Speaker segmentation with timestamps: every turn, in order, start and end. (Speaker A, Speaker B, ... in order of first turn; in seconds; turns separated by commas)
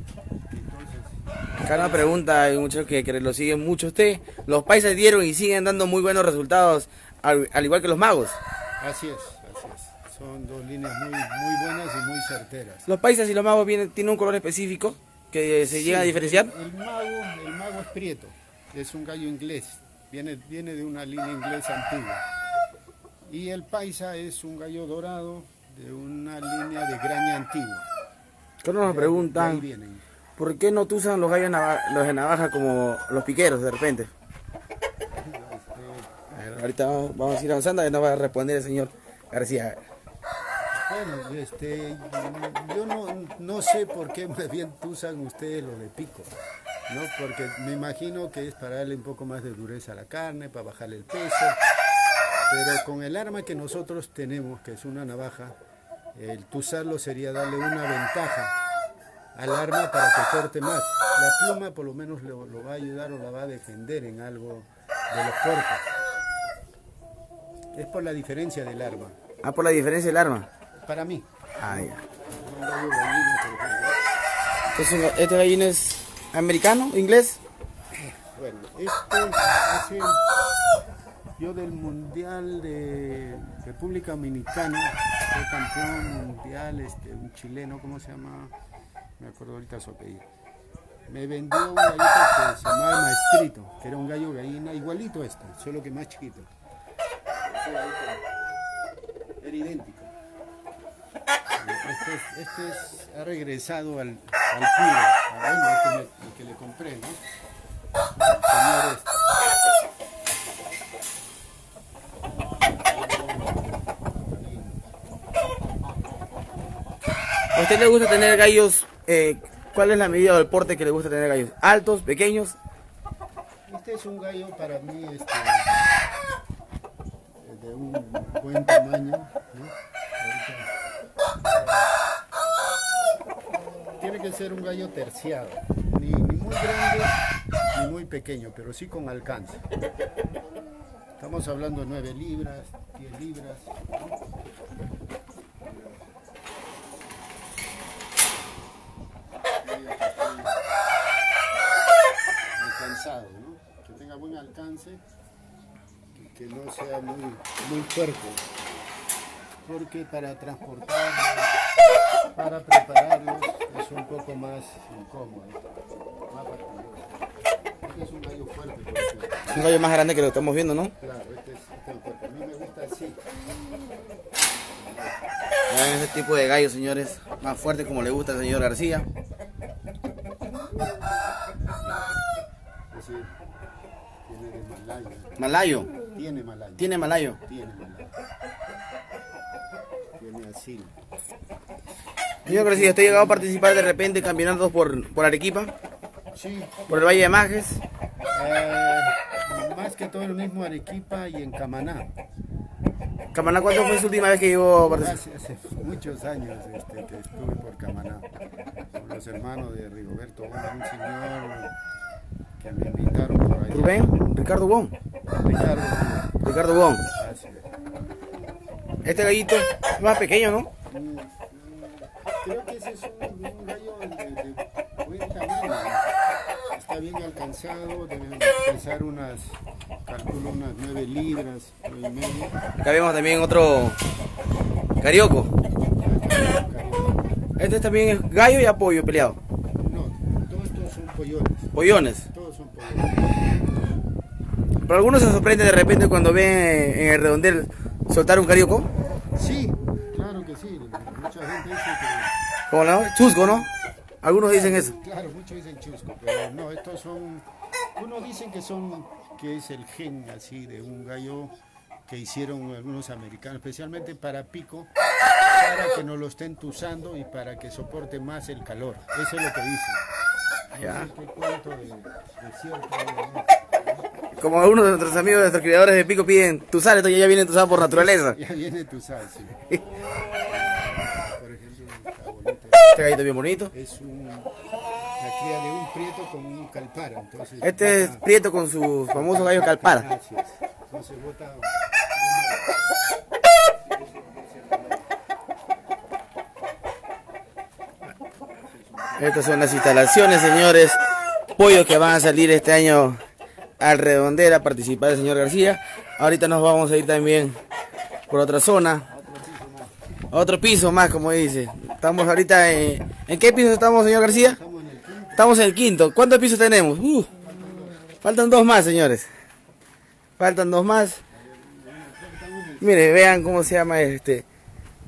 Speaker A: 0.5-2.2, Speaker B: 1.6-8.4, Speaker A: 8.8-12.9, Speaker B: 12.9-16.5, Speaker A: 15.6-22.2, Speaker A: 23.3-27.9, Speaker B: 28.6-29.6, Speaker A: 28.8-30.0, Speaker B: 30.4-34.1, Speaker A: 35.1-36.2, Speaker B: 36.3-39.8, Speaker A: 40.6-46.3, Speaker A: 46.9-51.6, Speaker A: 52.5-55.6, Speaker A: 56.1-58.5, Speaker A: 59.4-65.9, Speaker A: 67.7-69.2, Speaker B: 69.4-70.5, Speaker A: 70.8-74.0, Speaker B: 71.6-72.0, Speaker B: 74.7-77.4, Speaker A: 78.0-80.2, Speaker A: 81.4-88.5, Speaker A: 89.2-90.2, Speaker A: 91.1-96.5, Speaker A: 97.4-98.2, Speaker A: 99.4-100.1, Speaker A: 101.6-107.2, Speaker A: 108.2-109.2, Speaker A: 112.7-115.0, Speaker B: 117.5-122.6, Speaker A: 123.7-125.7, Speaker A: 127.4-130.7, Speaker A: 131.4-131.9, Speaker A: 134.0-139.6, Speaker A: 141.2-144.2, Speaker A: 145.6-146.1, Speaker A: 149.6-150.6, Speaker A: 152.6-155.0, Speaker A: 156.1-158.4, Speaker A: 159.6-161.5, Speaker A: 162.4-165.6, Speaker A: 166.3-167.2, Speaker A: 167.8-169.7, Speaker B: 169.5-170.9, Speaker A: 171.0-173.3, Speaker A: 174.7-175.2, Speaker B: 175.7-179.1, Speaker A: 182.9-183.3, Speaker A: 184.3-185.4, Speaker B: 185.4-185.9, Speaker A: 186.1-188.1, Speaker B: 186.8-187.4, Speaker A: 190.2-190.9, Speaker A: 192.4-193.7, Speaker B: 192.4-195.7, Speaker A: 196.3-197.2, Speaker B: 196.9-197.8, Speaker A: 198.3-202.1, Speaker B: 203.3-205.2, Speaker A: 204.9-208.4, Speaker A: 208.9-211.7, Speaker A: 212.6-214.3, Speaker B: 213.7-214.9, Speaker A: 215.4-216.3, Speaker B: 216.4-217.0, Speaker A: 217.1-217.7, Speaker B: 219.0-220.7, Speaker A: 220.9-226.1, Speaker A: 226.7-232.6, Speaker B: 232.8-234.0, Speaker B: 235.0-235.5, Speaker A: 236.0-237.3, Speaker B: 237.6-239.4, Speaker A: 239.8-243.6, Speaker B: 241.7-242.2, Speaker B: 244.8-248.9, Speaker A: 249.3-252.3, Speaker B: 252.7-253.7, Speaker A: 253.4-253.7, Speaker B: 254.2-254.9, Speaker A: 254.3-257.4, Speaker A: 257.9-261.5, Speaker A: 262.1-264.9, Speaker A: 265.5-270.0, Speaker A: 270.7-274.1, Speaker B: 270.8-271.1, Speaker B: 274.4-278.4, Speaker A: 277.7-279.6, Speaker A: 280.4-283.2, Speaker B: 282.9-283.7, Speaker A: 283.7-284.5, Speaker A: 285.2-288.2, Speaker B: 287.6-290.1, Speaker A: 289.1-292.7, Speaker A: 294.1-295.0, Speaker A: 298.6-299.8, Speaker B: 299.2-301.0, Speaker B: 301.6-303.2, Speaker B: 303.8-307.6, Speaker B: 308.3-309.1, Speaker A: 309.1-310.0, Speaker B: 310.3-314.6, Speaker A: 314.2-315.4, Speaker B: 315.4-317.3, Speaker A: 317.4-318.1, Speaker B: 318.1-319.3, Speaker B: 320.4-321.2, Speaker A: 321.3-323.4, Speaker B: 322.8-324.4